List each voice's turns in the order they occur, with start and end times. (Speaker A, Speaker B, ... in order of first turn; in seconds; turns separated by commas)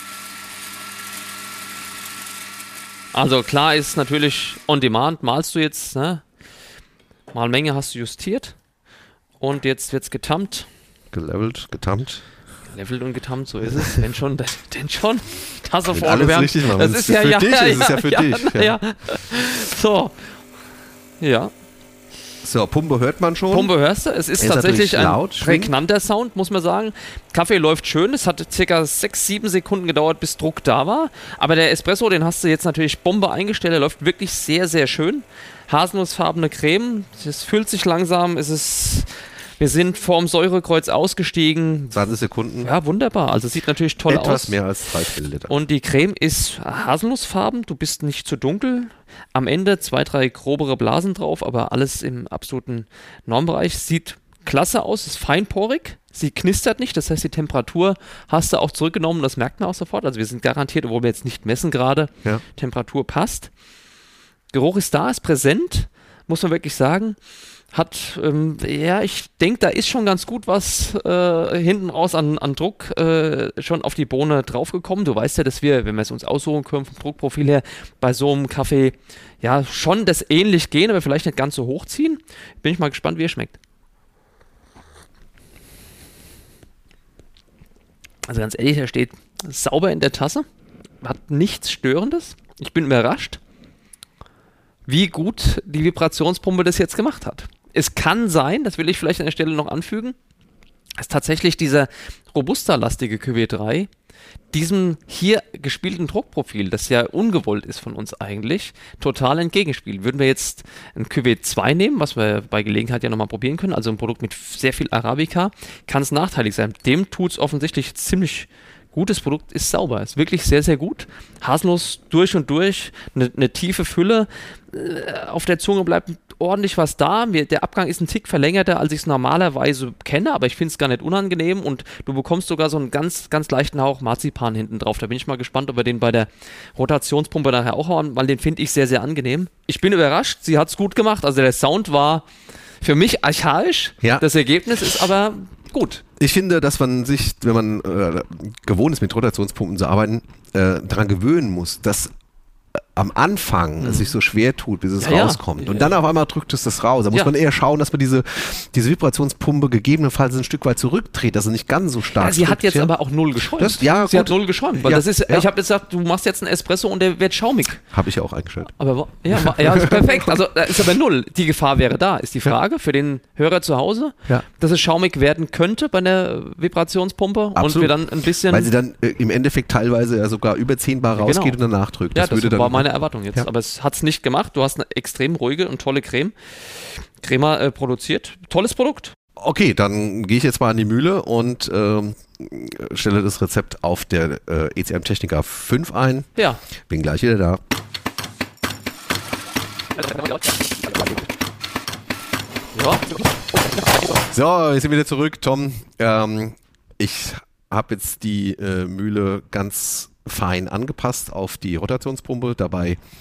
Speaker A: 3.1-6.2, Speaker A: 7.3-8.6, Speaker A: 9.4-10.7, Speaker B: 11.1-12.2, Speaker A: 12.7-20.2, Speaker B: 15.9-18.8, Speaker A: 21.2-21.5, Speaker B: 22.4-23.7, Speaker A: 23.5-42.0, Speaker B: 24.4-25.7, Speaker B: 41.9-42.7, Speaker A: 42.6-44.6, Speaker B: 44.1-45.6, Speaker A: 45.5-63.5, Speaker A: 64.5-67.2, Speaker A: 67.7-83.6, Speaker A: 88.3-90.4, Speaker A: 91.0-93.4, Speaker A: 94.8-100.2, Speaker A: 101.0-103.9, Speaker A: 104.5-142.3, Speaker A: 142.8-146.0, Speaker B: 146.2-152.1, Speaker B: 152.9-162.9, Speaker A: 153.8-154.1, Speaker A: 155.0-156.0, Speaker A: 162.1-167.8, Speaker B: 163.5-165.5, Speaker B: 167.9-168.7, Speaker A: 168.7-178.7, Speaker B: 169.3-170.4, Speaker B: 177.6-183.5, Speaker A: 181.1-181.6, Speaker A: 182.1-189.1, Speaker B: 189.4-196.3, Speaker A: 196.3-196.6, Speaker B: 196.9-197.6, Speaker A: 202.7-203.6, Speaker B: 204.3-213.0